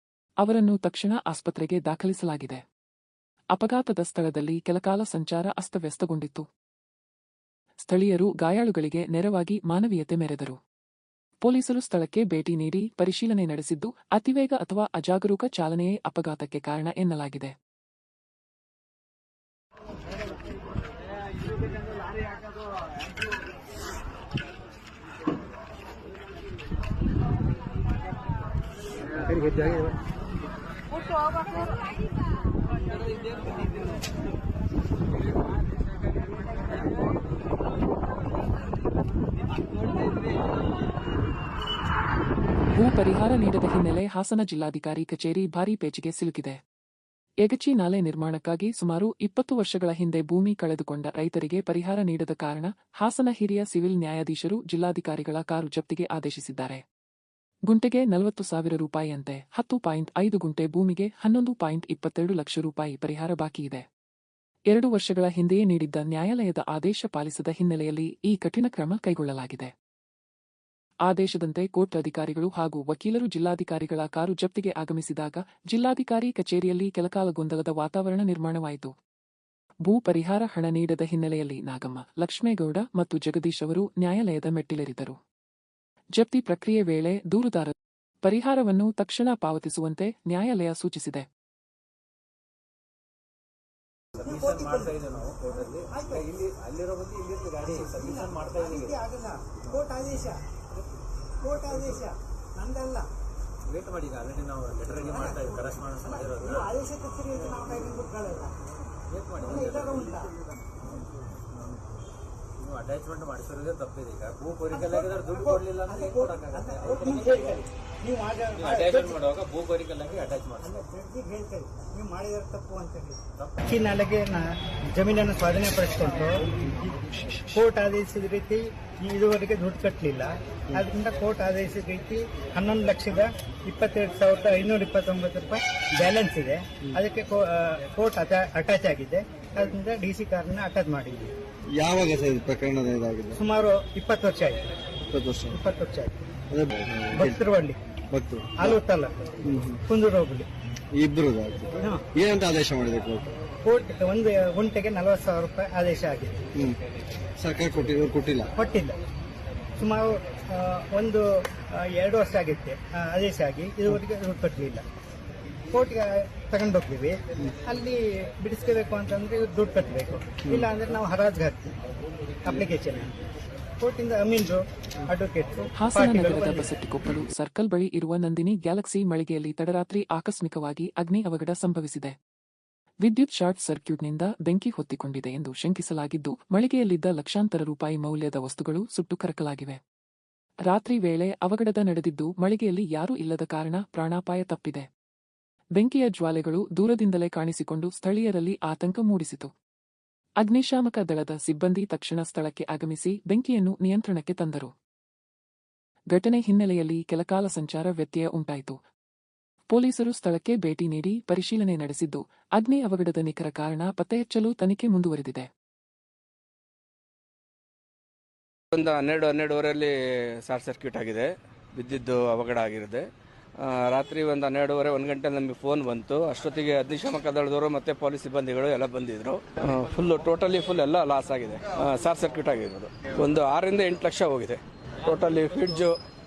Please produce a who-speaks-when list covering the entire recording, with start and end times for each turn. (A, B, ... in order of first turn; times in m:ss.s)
0:00.4-0:02.6 A
0:03.5-0:06.5 A
0:07.8-0:10.6 A
0:11.4-0:17.5 A
0:42.7-0:46.6 A
0:47.4-0:56.8 A
0:57.7-1:03.8 A
1:04.7-1:09.7 A
1:11.1-1:18.9 A
1:19.8-1:25.2 A
1:26.2-1:31.3 A
1:34.2-1:39.0 B
1:34.2-1:36.3 C
1:37.6-1:40.4 C
1:41.4-1:43.1 C
1:43.7-1:46.7 B
1:44.9-1:48.5 C
1:49.1-1:50.4 B
1:49.4-1:50.3 C
1:52.6-1:57.6 B
1:54.7-1:59.2 C
1:58.6-2:00.8 B
2:00.6-2:06.4 C
2:07.5-2:21.3 C
2:21.7-2:23.4 D
2:23.4-2:24.6 C
2:25.1-2:25.6 D
2:25.5-2:26.2 C
2:26.5-2:27.4 D
2:27.2-2:27.8 C
2:28.1-2:28.8 D
2:28.6-2:29.1 C
2:29.4-2:29.8 D
2:29.9-2:30.5 C
2:31.0-2:33.3 D
2:33.6-2:36.4 C
2:37.4-2:38.5 D
2:38.6-2:39.0 C
2:39.8-2:41.2 C
2:41.7-2:44.8 C
2:45.7-2:51.7 C
2:52.4-2:53.1 C
2:53.8-2:56.7 C
2:55.8-3:02.2 A
3:03.0-3:09.8 A
3:10.7-3:14.9 A
3:15.8-3:19.5 A
3:20.4-3:24.7 A
3:26.1-3:28.8 A
3:29.7-3:35.5 A
3:38.7-3:39.9 E
3:40.4-3:43.0 E
3:43.6-3:55.9 E